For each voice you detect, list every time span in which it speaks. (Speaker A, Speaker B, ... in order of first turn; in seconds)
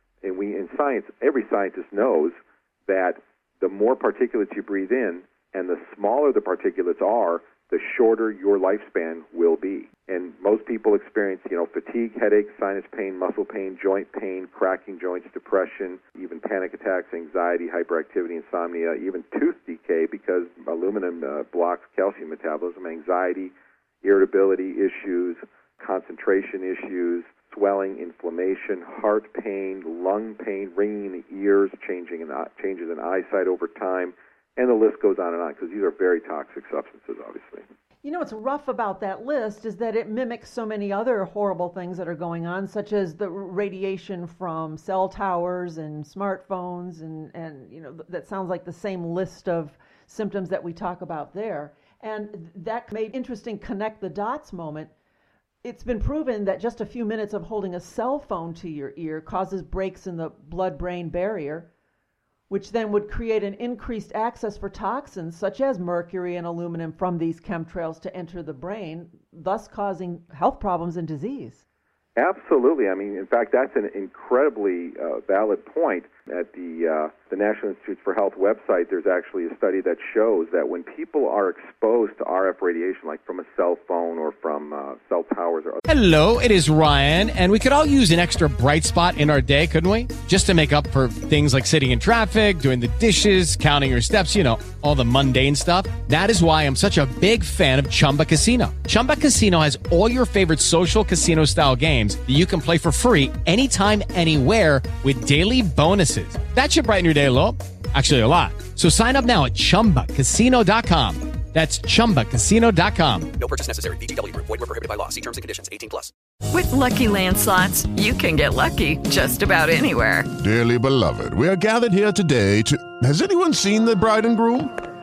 Speaker A: 0.2-37.6, 72.2-85.8
Speaker B: 38.0-54.9, 55.6-61.7, 62.5-71.6
Speaker C: 85.9-113.4
Speaker D: 113.4-116.0
Speaker E: 116.5-120.3
Speaker F: 120.4-124.7